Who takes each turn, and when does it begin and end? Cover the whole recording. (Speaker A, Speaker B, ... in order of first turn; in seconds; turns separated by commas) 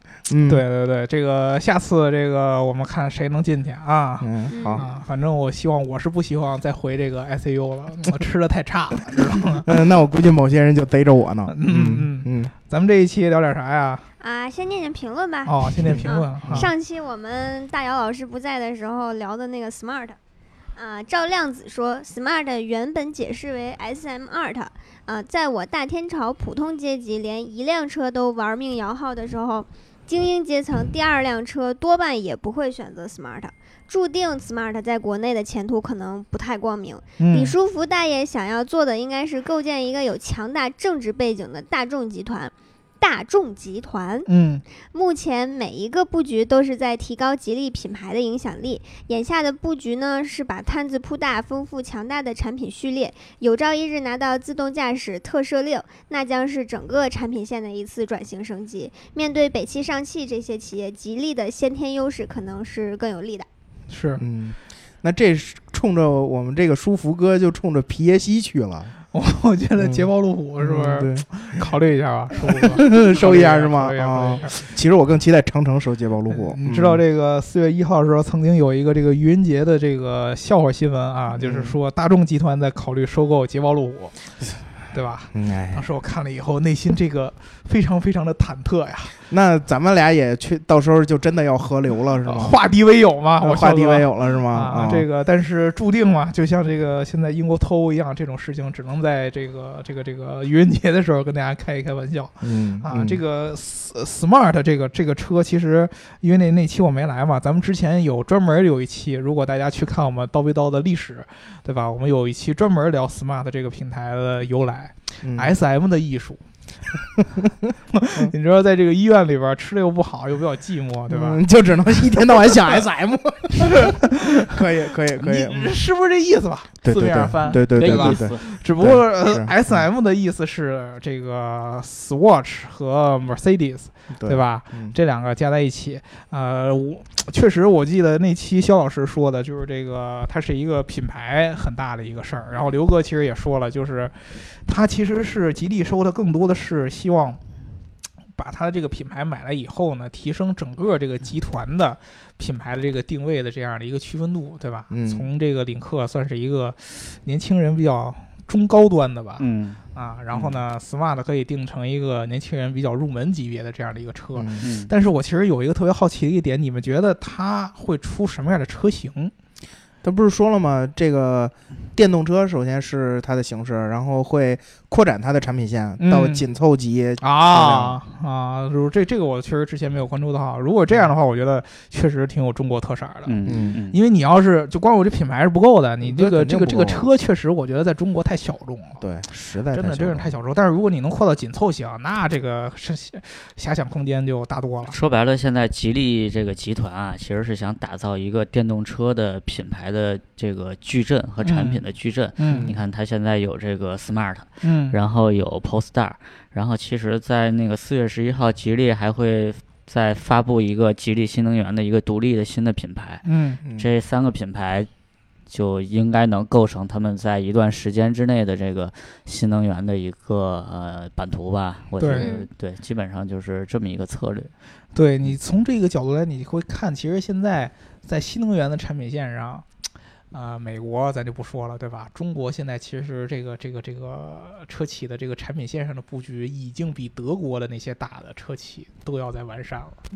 Speaker A: 0.3-0.7, Speaker B: 0.5-9.7, Speaker A: 4.2-4.9, Speaker C: 4.5-4.8, Speaker A: 9.6-12.5, Speaker B: 11.5-14.1, Speaker C: 14.2-20.2, Speaker B: 15.5-16.7, Speaker A: 15.8-16.7, Speaker C: 20.8-44.3, Speaker B: 37.2-37.6, Speaker B: 44.2-44.6, Speaker C: 44.8-63.5, Speaker B: 63.9-64.2, Speaker A: 64.2-68.9, Speaker B: 69.1-74.7, Speaker A: 69.8-71.7, Speaker A: 72.3-77.0, Speaker B: 76.3-84.2, Speaker A: 81.3-81.8, Speaker B: 84.9-89.2, Speaker A: 85.3-85.9, Speaker A: 89.3-92.6, Speaker B: 92.2-116.4, Speaker A: 93.4-95.1, Speaker A: 102.4-103.2, Speaker A: 115.2-115.5, Speaker B: 117.9-121.4, Speaker A: 121.1-125.8, Speaker B: 122.3-122.8, Speaker B: 123.6-124.6, Speaker B: 125.2-147.4, Speaker A: 126.8-129.9, Speaker D: 127.5-128.4, Speaker A: 134.1-135.0, Speaker B: 148.4-169.3, Speaker A: 154.9-155.3, Speaker D: 159.4-159.8, Speaker A: 160.3-160.6, Speaker A: 164.3-164.7, Speaker D: 164.6-164.9, Speaker A: 170.0-178.0, Speaker B: 176.0-176.4, Speaker B: 177.2-189.0, Speaker D: 183.2-184.0, Speaker A: 183.4-183.8, Speaker A: 186.0-187.1, Speaker A: 189.0-190.3, Speaker B: 189.7-195.0, Speaker D: 194.9-214.9, Speaker B: 201.4-201.8, Speaker B: 202.4-202.7, Speaker A: 202.5-202.8, Speaker B: 204.6-205.0, Speaker B: 213.2-213.6, Speaker D: 215.5-224.5, Speaker B: 222.0-222.3, Speaker C: 222.1-222.5, Speaker B: 224.9-229.7, Speaker B: 230.3-240.0